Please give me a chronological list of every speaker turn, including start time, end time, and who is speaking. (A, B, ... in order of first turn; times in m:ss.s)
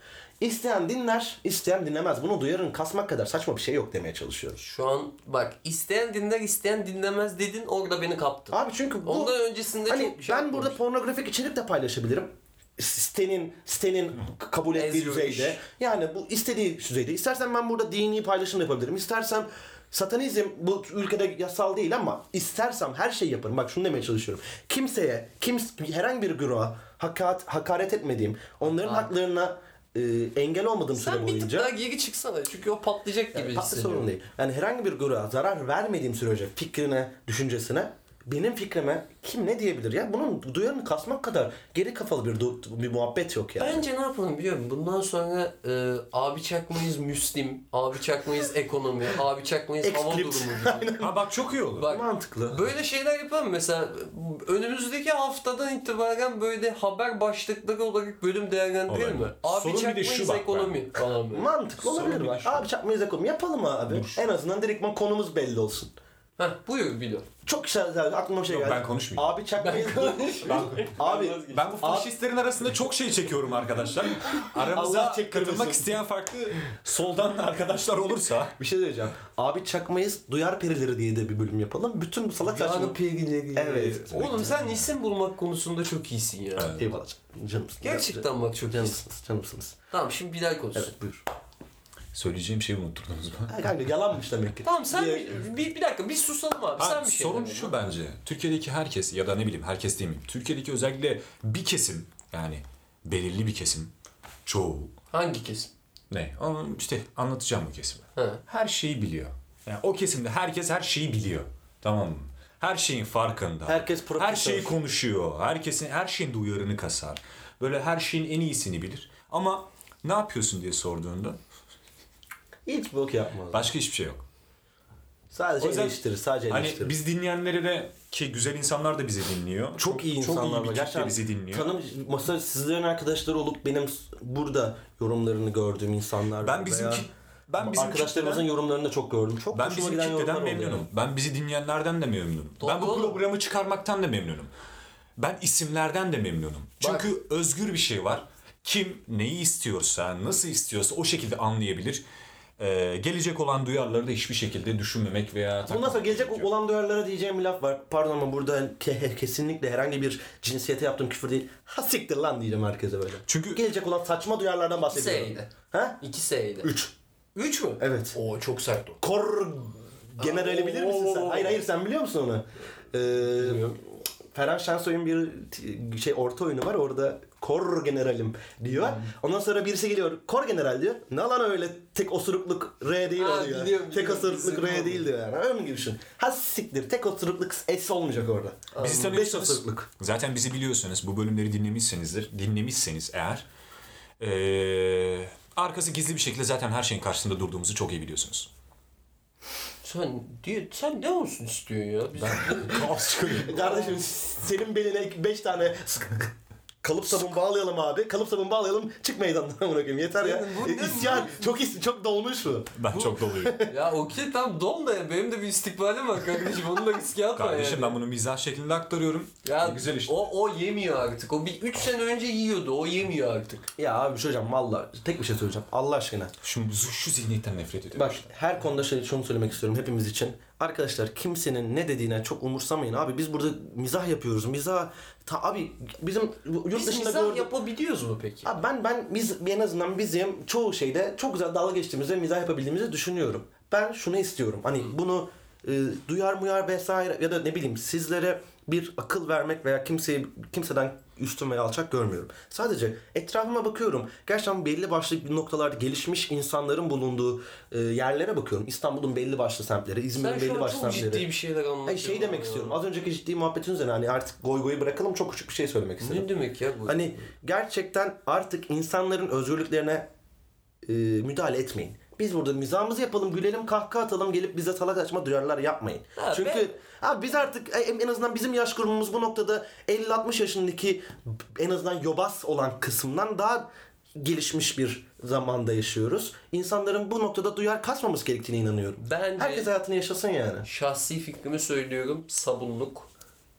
0:00.4-0:04.6 A
0:04.6-0:10.8 B
0:08.5-0:31.7 A
0:14.7-0:15.6 B
0:28.8-0:29.1 B
0:31.0-0:34.1 B
0:33.3-0:43.8 A
0:43.6-0:50.9 B
0:49.8-0:51.2 A
0:51.0-0:51.9 C
0:51.8-1:01.5 B
0:51.8-0:52.6 A
0:58.9-1:00.8 C
1:01.3-1:05.9 A
1:01.8-1:02.6 C
1:03.9-1:04.2 C
1:06.4-1:07.3 B
1:07.4-1:12.1 A
1:08.5-1:09.3 C
1:09.6-1:11.7 B
1:10.4-1:11.0 C
1:11.5-1:18.6 C
1:14.5-1:15.9 A
1:18.6-1:23.0 A
1:22.4-1:26.8 B
1:23.5-1:24.5 A
1:24.1-1:24.7 C
1:26.6-1:26.9 C
1:26.7-1:29.8 A
1:27.8-1:29.0 B
1:29.9-1:30.9 B
1:30.8-1:31.2 A
1:32.1-1:33.6 C
1:33.5-1:35.4 A
1:34.6-1:37.8 B
1:36.8-1:43.9 C
1:44.5-1:44.9 C
1:45.1-1:45.7 B
1:46.1-2:01.4 C
1:48.2-1:48.4 B
1:53.6-1:54.8 A
2:02.6-2:03.7 A
2:03.5-2:04.2 C
2:05.3-2:07.0 A
2:05.6-2:11.8 C
2:09.8-2:17.1 A
2:16.4-2:18.5 C
2:17.6-2:20.9 A
2:19.5-2:24.5 C
2:22.6-2:23.2 B
2:25.2-2:32.0 C
2:26.8-2:27.1 B
2:32.6-2:36.5 C
2:35.6-2:46.0 A
2:43.3-2:43.6 C
2:44.8-2:46.7 B
2:46.6-2:46.9 A
2:47.4-2:49.0 B
2:47.8-2:48.1 A
2:49.0-2:53.8 A
2:50.2-2:51.6 B
2:53.4-2:53.8 B
2:54.3-3:09.9 A
3:03.1-3:05.1 B
3:08.7-3:09.1 B
3:08.8-3:13.5 C
3:14.2-3:18.5 C
3:19.8-3:22.9 B
3:22.2-3:23.6 C
3:23.3-3:26.3 A
3:23.5-3:24.0 B
3:26.8-3:33.7 A
3:30.2-3:31.5 B
3:32.8-3:33.6 C
3:33.6-3:38.0 B
3:37.3-3:40.2 C
3:39.4-3:43.7 B
3:43.8-3:46.3 A
3:46.4-3:48.3 C
3:48.0-3:57.5 A
3:56.7-3:58.6 B
3:58.4-4:21.3 A
4:20.2-4:22.8 B
4:21.8-4:26.3 A
4:26.0-4:27.3 B
4:26.9-4:30.1 A
4:30.8-4:50.6 A
4:36.2-4:36.7 B
4:49.0-4:49.7 B
4:50.6-4:53.1 B